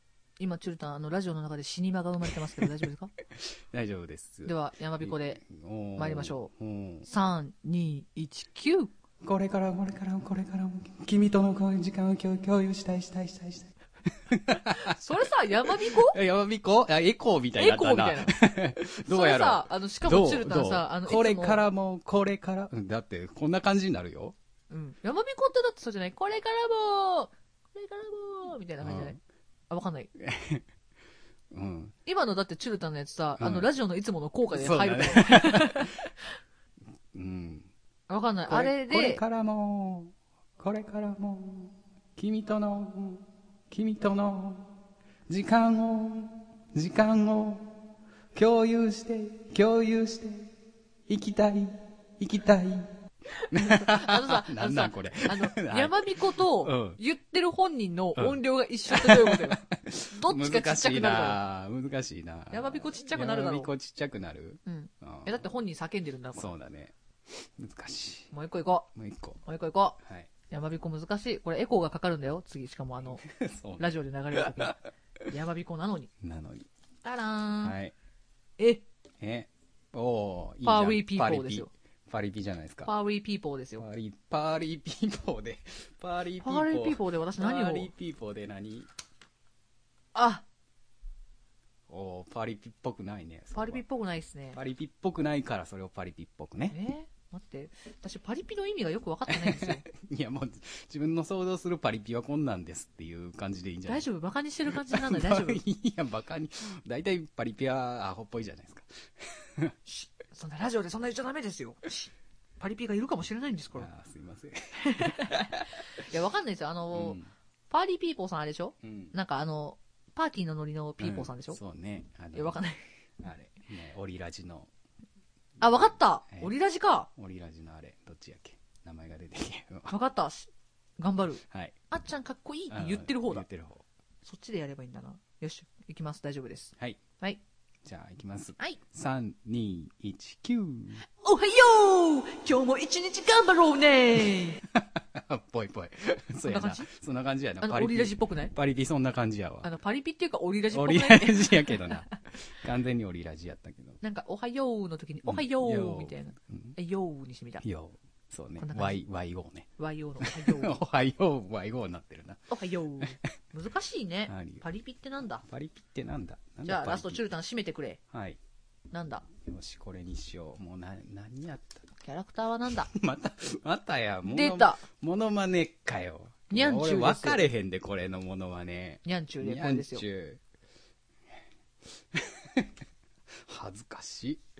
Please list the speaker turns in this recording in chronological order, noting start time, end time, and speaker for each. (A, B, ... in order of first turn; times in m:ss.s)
0:00.4-0:03.1 A
0:03.3-0:07.1 B
0:04.4-0:05.4 A
0:06.0-0:06.5 A
0:07.0-0:08.9 A
0:09.2-0:15.0 B
0:14.7-0:16.2 A
0:15.7-0:24.3 B
0:17.6-0:18.3 A
0:19.1-0:21.6 A
0:24.7-0:29.2 A
0:28.8-0:29.2 B
0:29.7-0:30.1 A
0:30.2-0:30.6 B
0:31.5-0:31.9 B
0:32.0-0:36.1 A
0:33.4-0:33.7 B
0:34.5-0:36.0 B
0:37.1-0:37.7 B
0:38.1-0:39.2 A
0:38.5-0:44.7 B
0:45.3-0:47.7 B
0:48.3-0:50.5 B
0:51.1-0:52.9 B
0:53.3-1:01.4 A
0:53.5-0:57.0 B
0:58.2-1:05.4 B
1:02.5-1:03.7 A
1:04.6-1:06.5 A
1:06.3-1:08.3 B
1:08.3-1:08.9 A
1:08.9-1:09.4 B
1:09.4-1:10.0 A
1:10.0-1:10.3 B
1:10.5-1:13.2 A
1:13.2-1:14.7 B
1:13.8-1:16.1 A
1:16.2-1:16.7 B
1:17.0-1:17.8 A
1:17.6-1:17.9 B
1:18.6-1:18.8 A
1:19.2-1:22.9 B
1:20.6-1:21.7 A
1:22.8-1:23.8 A
1:23.8-1:28.9 B
1:26.4-1:27.9 A
1:30.1-1:30.4 A
1:31.9-1:33.8 B
1:33.5-1:34.6 A
1:34.5-1:36.8 B
1:36.7-1:39.8 A
1:39.3-1:44.1 B
1:43.9-1:45.6 A
1:44.7-1:49.8 B
1:49.9-1:53.9 A
1:53.7-1:55.6 B
1:54.8-2:01.6 A
1:56.9-1:57.3 B
1:58.8-1:59.1 B
2:01.0-2:02.6 B
2:02.3-2:02.8 A
2:03.2-2:04.7 B
2:05.6-2:07.1 A
2:07.2-2:09.9 B
2:09.9-2:13.4 A
2:11.4-2:11.8 B
2:12.7-2:13.8 B
2:14.2-2:17.4 A
2:17.8-2:21.0 B
2:21.2-2:24.6 A
2:24.7-2:29.7 B
2:26.4-2:26.9 A
2:27.6-2:28.5 A
2:29.6-2:32.1 A
2:30.7-2:34.0 B
2:34.0-2:37.6 A
2:35.2-2:36.7 B
2:37.6-2:39.7 B
2:38.6-2:39.0 A
2:39.8-2:40.8 A
2:40.2-2:43.2 B
2:42.5-2:45.4 A
2:44.3-2:44.6 B
2:45.5-2:47.2 B
2:46.6-2:48.0 A
2:48.1-2:48.4 B
2:48.9-2:49.2 A
2:49.4-2:51.9 B
2:52.0-2:52.9 A
2:52.7-3:00.4 B
2:54.2-2:54.8 A
2:56.5-2:57.5 A
2:59.0-3:00.0 A
3:02.1-3:02.7 B
3:03.4-3:04.4 B